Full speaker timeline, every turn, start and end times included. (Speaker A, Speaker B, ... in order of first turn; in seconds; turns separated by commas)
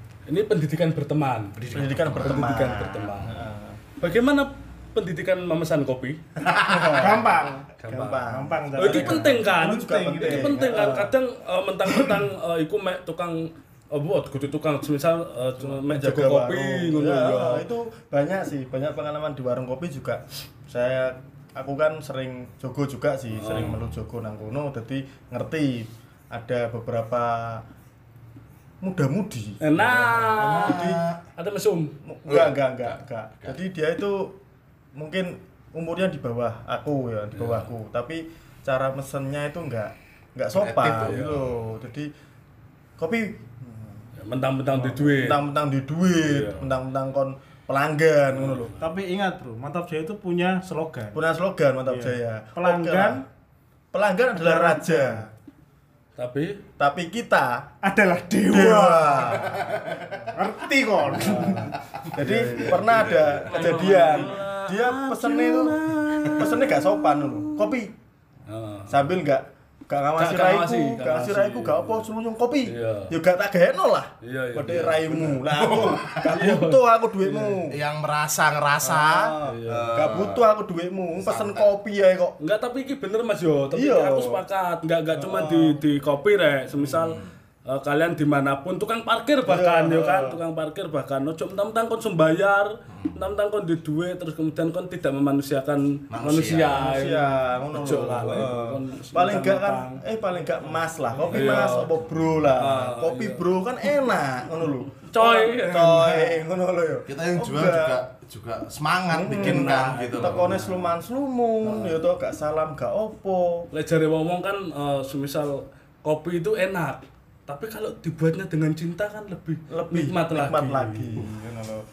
Speaker A: 0.2-1.6, Speaker B: 1.6-2.6, Speaker C: 1.7-3.8, Speaker A: 2.2-3.4, Speaker A: 4.0-6.2, Speaker B: 6.4-7.1, Speaker C: 6.5-11.1, Speaker D: 6.8-7.5, Speaker A: 7.8-17.6, Speaker D: 8.3-10.6, Speaker C: 15.6-27.6, Speaker A: 23.4-23.8, Speaker C: 28.8-31.1, Speaker A: 29.6-32.0, Speaker B: 30.3-31.2, Speaker C: 32.0-34.4, Speaker B: 32.3-32.5, Speaker C: 34.9-42.1, Speaker B: 40.5-41.6, Speaker A: 41.0-41.3, Speaker C: 43.0-44.0, Speaker A: 44.1-45.4, Speaker C: 44.8-48.8, Speaker A: 46.2-46.7, Speaker A: 48.4-48.7, Speaker D: 48.7-51.2, Speaker C: 51.1-53.2, Speaker D: 51.9-53.2, Speaker C: 53.9-55.2, Speaker D: 54.3-55.3, Speaker A: 56.2-56.6, Speaker C: 56.8-57.7, Speaker D: 57.8-59.5, Speaker C: 58.5-59.8, Speaker B: 59.3-60.3, Speaker D: 60.3-62.4, Speaker C: 61.0-67.9, Speaker B: 61.9-63.8, Speaker A: 63.4-67.7, Speaker A: 68.5-69.1, Speaker C: 68.9-77.8, Speaker A: 70.2-72.0, Speaker A: 72.7-73.1, Speaker A: 74.2-77.6, Speaker B: 75.5-76.3, Speaker B: 77.7-80.4, Speaker C: 78.8-82.4, Speaker A: 79.0-80.3, Speaker B: 81.2-81.7, Speaker A: 82.4-99.6, Speaker C: 83.7-84.4, Speaker C: 85.1-85.8, Speaker C: 89.4-90.4, Speaker B: 96.1-96.9, Speaker C: 96.7-108.0, Speaker D: 97.9-98.5, Speaker D: 99.2-100.0, Speaker B: 101.2-101.7, Speaker A: 101.2-101.9, Speaker A: 102.5-103.4, Speaker A: 105.1-106.3, Speaker B: 107.1-110.6, Speaker C: 109.1-113.7, Speaker D: 109.4-110.4, Speaker A: 111.6-112.0, Speaker A: 113.7-121.2, Speaker C: 119.7-121.8